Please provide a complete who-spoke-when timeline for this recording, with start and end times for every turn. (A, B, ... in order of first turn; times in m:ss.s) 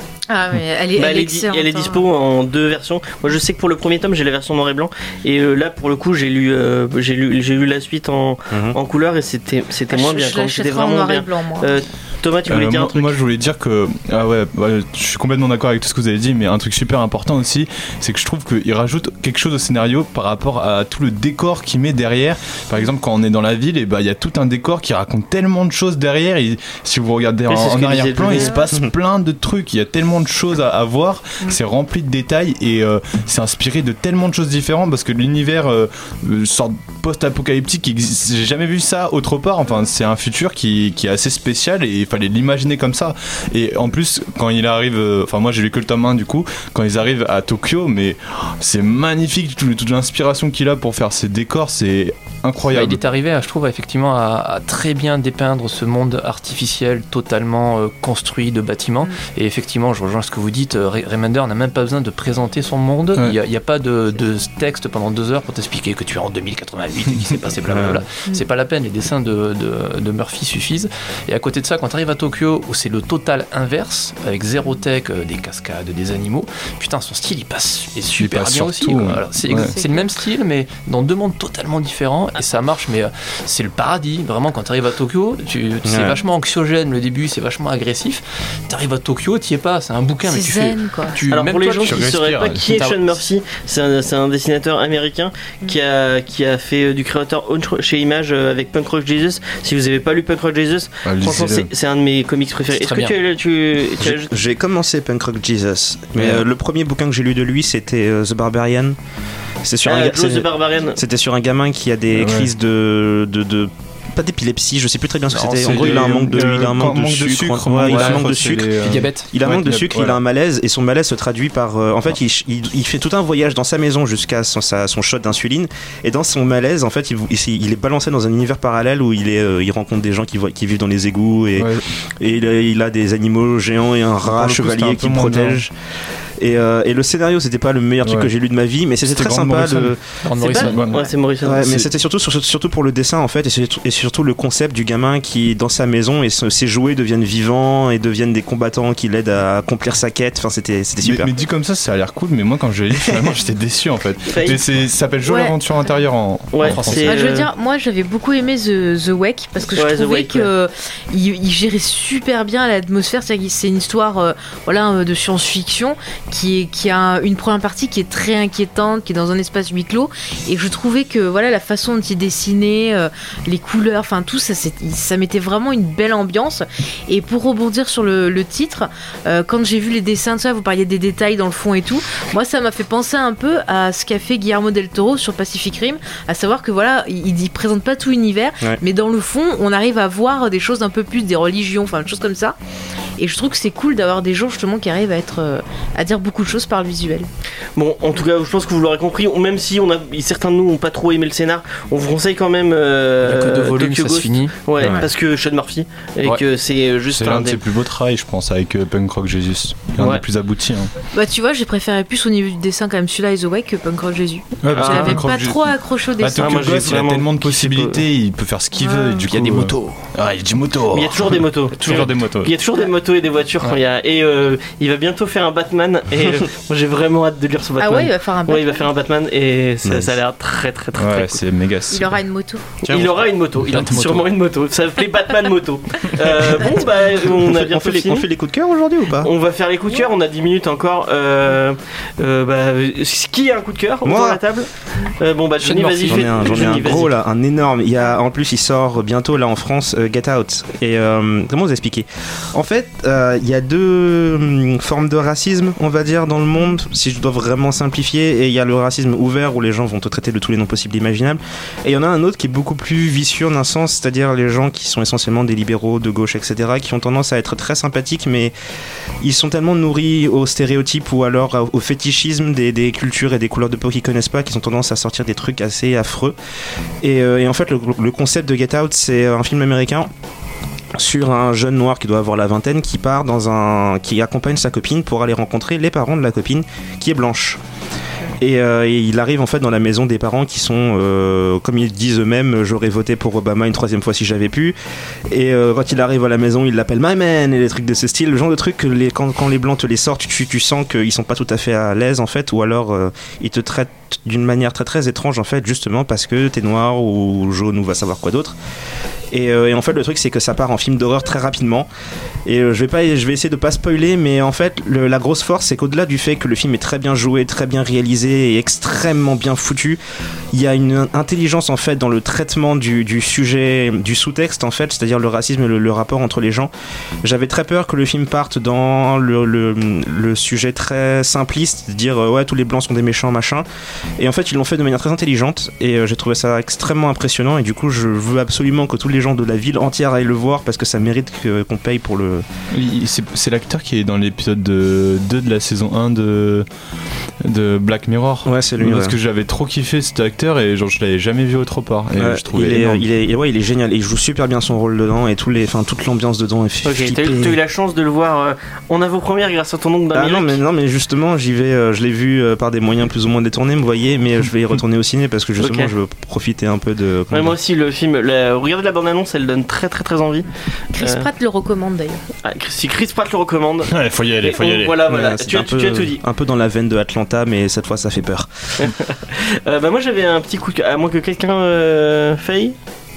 0:00.3-0:02.0 A
0:01.0-0:13.2 B
0:08.5-0:08.8 C
0:09.9-0:11.8 A
0:12.5-0:53.0 D
0:27.5-0:28.6 B
0:28.3-0:28.6 A
0:52.7-1:32.1 E
1:07.7-1:08.0 C
1:18.2-1:19.7 D
1:19.5-1:20.1 A
1:25.9-1:26.2 C
1:30.2-1:31.2 A
1:31.3-1:44.3 B
1:31.8-1:32.8 D
1:32.7-1:33.2 E
1:41.0-1:41.7 D
1:42.8-1:43.2 E
1:44.0-1:49.0 C
1:46.2-1:46.4 D
1:49.6-2:15.7 C
1:49.8-1:51.0 B
1:52.1-1:52.5 D
1:55.3-1:56.0 E
1:55.4-2:00.2 D
1:57.8-1:59.3 E
2:11.6-2:11.8 D
2:14.2-2:15.6 D
2:16.4-2:20.0 C
2:18.0-2:18.3 D
2:19.0-2:20.0 D
2:20.2-2:20.8 E
2:20.4-2:21.9 B
2:20.6-2:21.0 D
2:21.4-2:31.3 C
2:31.0-2:37.2 D
2:34.3-2:34.6 B
2:35.2-2:35.5 A
2:36.5-2:37.5 B
2:36.6-2:37.2 E
2:37.1-3:12.6 A
2:39.7-2:40.5 B
3:13.2-3:17.3 A
3:17.8-3:27.6 B
3:23.2-3:24.9 E
3:24.8-3:25.0 C
3:27.1-3:30.9 D
3:30.0-3:30.2 B
3:31.1-3:37.0 A
3:34.6-3:42.5 D
3:34.7-3:35.2 B
3:36.4-3:38.0 B
3:38.8-3:39.3 A
3:39.3-3:39.8 C
3:40.9-3:51.4 B
3:47.8-3:48.8 A
3:49.8-3:50.1 C
3:51.0-3:52.2 D
3:51.9-3:52.7 A
3:52.8-3:53.2 D
3:52.8-3:58.3 B
3:53.6-3:54.3 E
3:53.7-3:54.2 D
3:56.6-3:56.9 A
3:57.4-3:59.3 C
3:59.2-4:07.1 B
4:04.0-4:04.4 C
4:05.6-4:07.1 E
4:06.1-4:28.5 C
4:29.2-4:36.4 C
4:37.0-4:40.1 C
4:41.0-4:47.6 C
4:48.4-4:54.8 C
4:55.3-5:08.6 C
5:09.3-5:11.9 C
5:12.5-5:20.0 C
5:20.5-5:26.7 C
5:27.2-5:33.6 C
5:34.2-5:42.4 C
5:42.7-5:46.7 D
5:47.4-5:53.1 D
5:48.4-5:49.2 C
5:52.2-5:57.6 C
5:56.8-6:00.6 B
6:00.1-6:07.6 C
6:05.6-6:05.9 B
6:07.3-6:11.3 B
6:11.0-6:12.2 A
6:12.4-6:16.2 B
6:13.9-6:15.0 D
6:15.0-6:18.5 C
6:18.8-6:22.8 B